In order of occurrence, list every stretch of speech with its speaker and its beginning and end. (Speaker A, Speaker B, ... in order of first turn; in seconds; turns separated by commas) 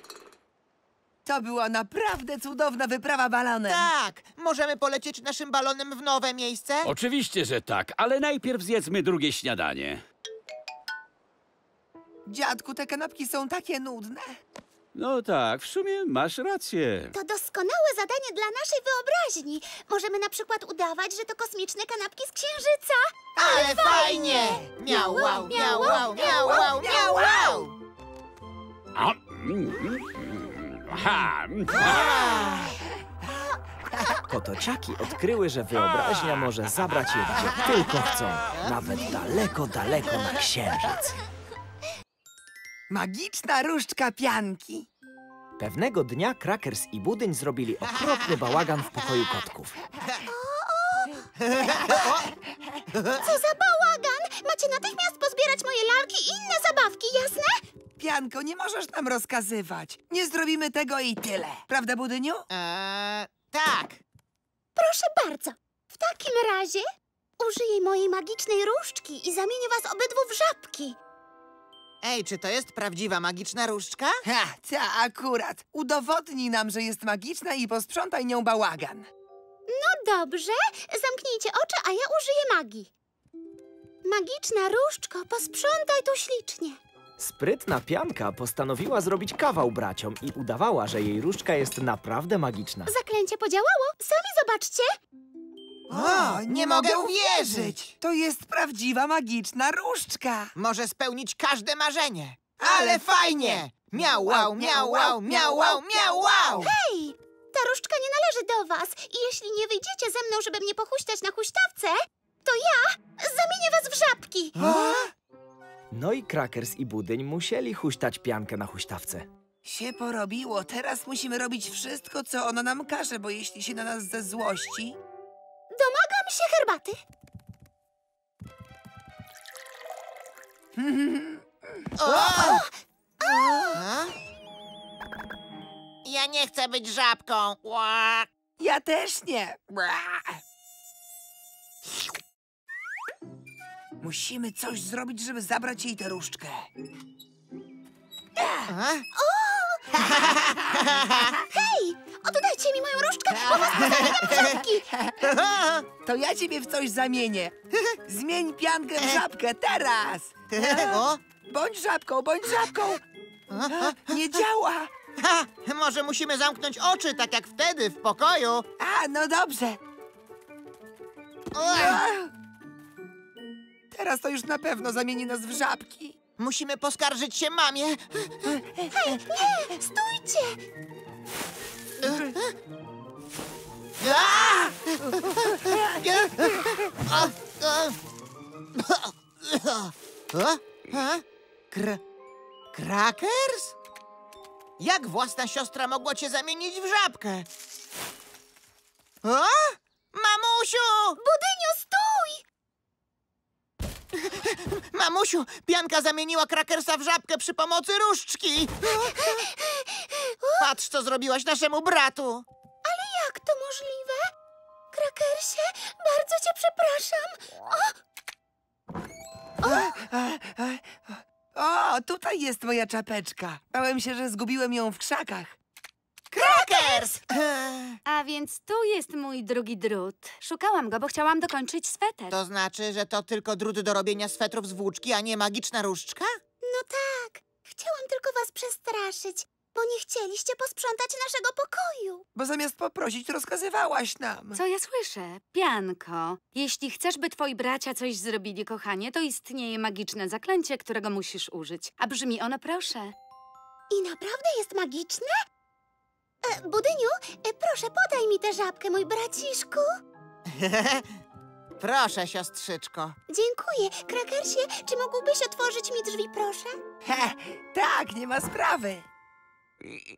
Speaker A: 1.2-3.9, Speaker B: 3.7-6.9, Speaker C: 6.8-10.0, Speaker A: 12.3-14.4, Speaker C: 14.9-17.1, Speaker D: 17.1-27.1, Speaker B: 23.4-27.7, Speaker A: 26.4-27.6, Speaker C: 28.9-32.0, Speaker B: 31.7-32.7, Speaker E: 34.3-41.1, Speaker A: 42.9-44.9, Speaker E: 45.6-49.8, Speaker D: 50.3-51.3, Speaker B: 51.4-52.3, Speaker B: 52.9-53.3, Speaker D: 53.2-57.6, Speaker A: 58.0-62.4, Speaker B: 62.5-64.0, Speaker D: 64.8-66.8, Speaker D: 67.4-71.0, Speaker B: 72.0-74.2, Speaker A: 74.2-79.1, Speaker D: 79.7-82.9, Speaker D: 84.0-86.8, Speaker E: 87.2-92.9, Speaker D: 92.9-94.9, Speaker B: 95.9-97.8, Speaker A: 95.9-100.5, Speaker B: 100.5-106.7, Speaker A: 102.6-105.8, Speaker D: 106.6-114.9, Speaker A: 114.6-115.1, Speaker E: 115.9-119.3, Speaker A: 119.6-125.0, Speaker D: 125.7-127.0, Speaker A: 130.8-131.8, Speaker B: 132.0-132.6, Speaker D: 132.1-133.8, Speaker B: 133.3-134.1, Speaker B: 136.0-138.3, Speaker A: 138.6-140.4, Speaker A: 144.0-146.7, Speaker A: 148.4-148.6, Speaker B: 148.7-149.1, Speaker D: 149.1-149.8, Speaker B: 150.0-151.4, Speaker D: 151.5-154.8, Speaker B: 153.3-154.6, Speaker A: 153.8-154.1, Speaker A: 154.9-155.2, Speaker B: 155.2-155.9, Speaker A: 156.0-157.5, Speaker A: 158.1-163.0, Speaker B: 160.5-161.2, Speaker B: 163.5-164.3, Speaker A: 163.7-164.9, Speaker B: 165.2-168.7, Speaker A: 168.8-169.8, Speaker B: 171.5-172.0, Speaker A: 171.7-172.3, Speaker A: 173.9-176.1, Speaker B: 176.4-178.3, Speaker A: 178.5-179.2, Speaker D: 178.9-180.6, Speaker B: 182.0-182.5, Speaker B: 184.0-188.0, Speaker B: 188.7-192.0, Speaker B: 192.7-193.8, Speaker B: 194.8-197.4, Speaker B: 199.2-201.2, Speaker D: 201.2-202.4, Speaker B: 204.2-209.4, Speaker D: 208.9-210.7, Speaker B: 210.6-212.4, Speaker D: 212.8-214.2, Speaker D: 214.9-217.9, Speaker D: 219.6-219.9, Speaker A: 219.6-225.6, Speaker B: 226.3-228.0, Speaker D: 226.3-227.2, Speaker F: 228.1-232.3, Speaker B: 232.3-236.3, Speaker D: 236.6-242.2, Speaker A: 242.3-244.6, Speaker F: 244.5-253.1, Speaker D: 253.9-255.3, Speaker D: 256.4-259.9, Speaker B: 260.5-261.1, Speaker B: 261.8-263.1, Speaker D: 263.3-266.8, Speaker A: 267.0-269.0